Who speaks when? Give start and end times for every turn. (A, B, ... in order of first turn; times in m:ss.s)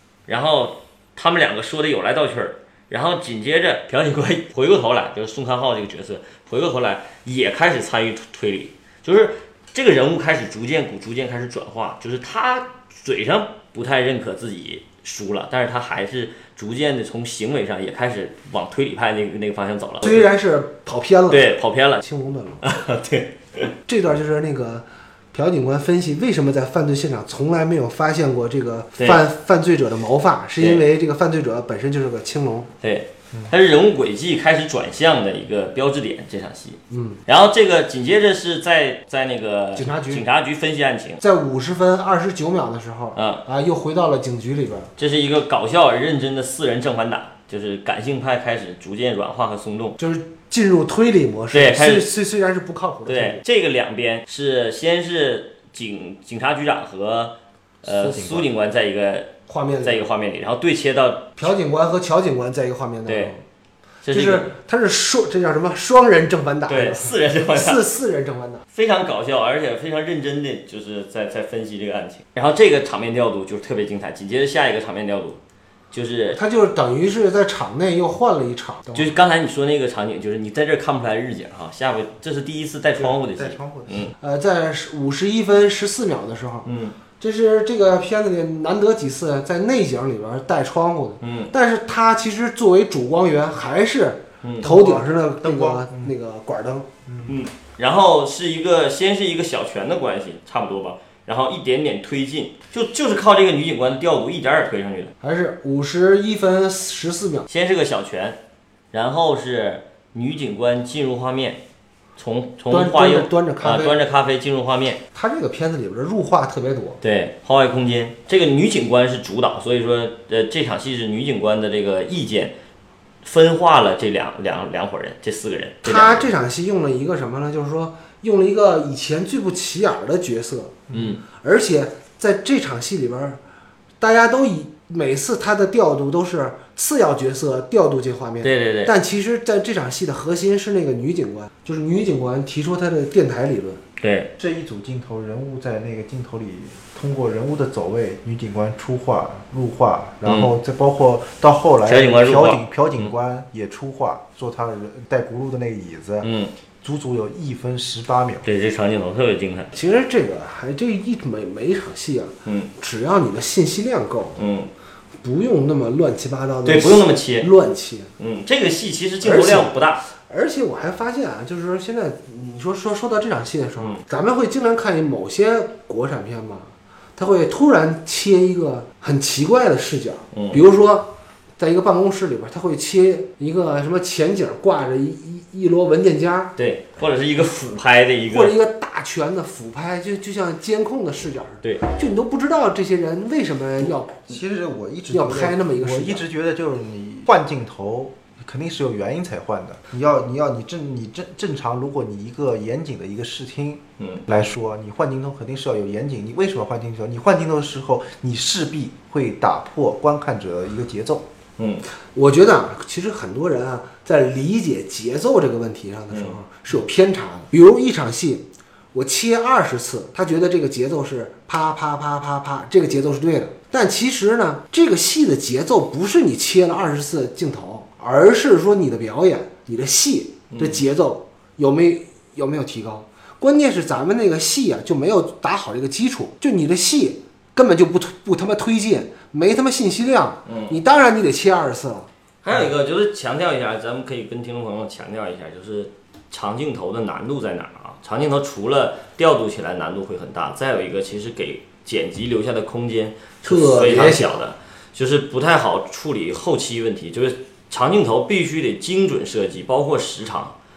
0:00.3-0:20.3 A
0:20.0-0:21.5 B
0:21.3-0:22.0 A
0:22.0-0:22.6 B
0:22.6-0:23.7 A
0:23.9-0:32.7 B
0:29.0-0:29.2 A
0:32.8-0:41.2 A
0:36.9-0:37.2 B
0:39.8-0:40.2 B
0:41.2-0:44.9 B
0:43.2-0:43.4 A
0:45.0-0:50.0 A
0:50.0-0:53.4 B
0:51.5-0:52.1 A
0:53.1-1:01.4 A
0:57.9-0:58.5 C
0:59.5-1:00.0 B
1:01.4-1:03.4 B
1:03.1-1:03.3 A
1:04.0-1:04.5 A
1:04.1-1:08.6 B
1:06.7-1:07.9 A
1:08.7-1:15.4 A
1:15.9-1:16.4 A
1:16.3-1:19.1 B
1:18.9-1:24.1 A
1:23.0-1:24.1 C
1:24.2-1:26.7 B
1:26.6-1:27.0 A
1:27.2-1:36.9 B
1:31.2-1:31.5 A
1:34.4-1:34.7 A
1:34.6-1:36.1 C
1:37.1-1:37.4 C
1:37.3-1:45.1 A
1:45.2-1:47.5 B
1:47.5-1:48.4 A
1:48.9-1:51.6 A
1:52.2-1:55.0 A
1:52.7-1:54.0 B
1:55.1-1:57.0 B
1:57.0-2:02.5 A
2:03.2-2:06.3 A
2:05.8-2:13.4 B
2:10.9-2:11.2 A
2:14.0-2:23.8 B
2:18.4-2:18.9 A
2:24.0-2:24.3 A
2:24.4-2:36.3 C
2:30.2-2:30.5 A
2:31.9-2:33.1 A
2:36.2-2:36.5 A
2:36.8-2:38.5 C
2:38.4-2:39.7 A
2:39.7-2:44.4 B
2:44.4-2:44.7 A
2:45.2-2:48.1 B
2:46.6-2:47.5 A
2:48.2-2:50.0 A
2:49.2-2:49.7 B
2:50.2-3:06.6 B
3:00.3-3:00.6 A
3:06.6-3:08.6 A
3:08.3-3:14.3 B
3:14.2-3:31.3 C
3:15.1-3:16.2 B
3:24.0-3:24.2 A
3:31.6-3:31.8 A
3:32.1-4:02.1 B
3:50.5-3:50.8 A
4:00.5-4:00.8 A
4:02.4-4:20.6 A
4:13.4-4:14.4 B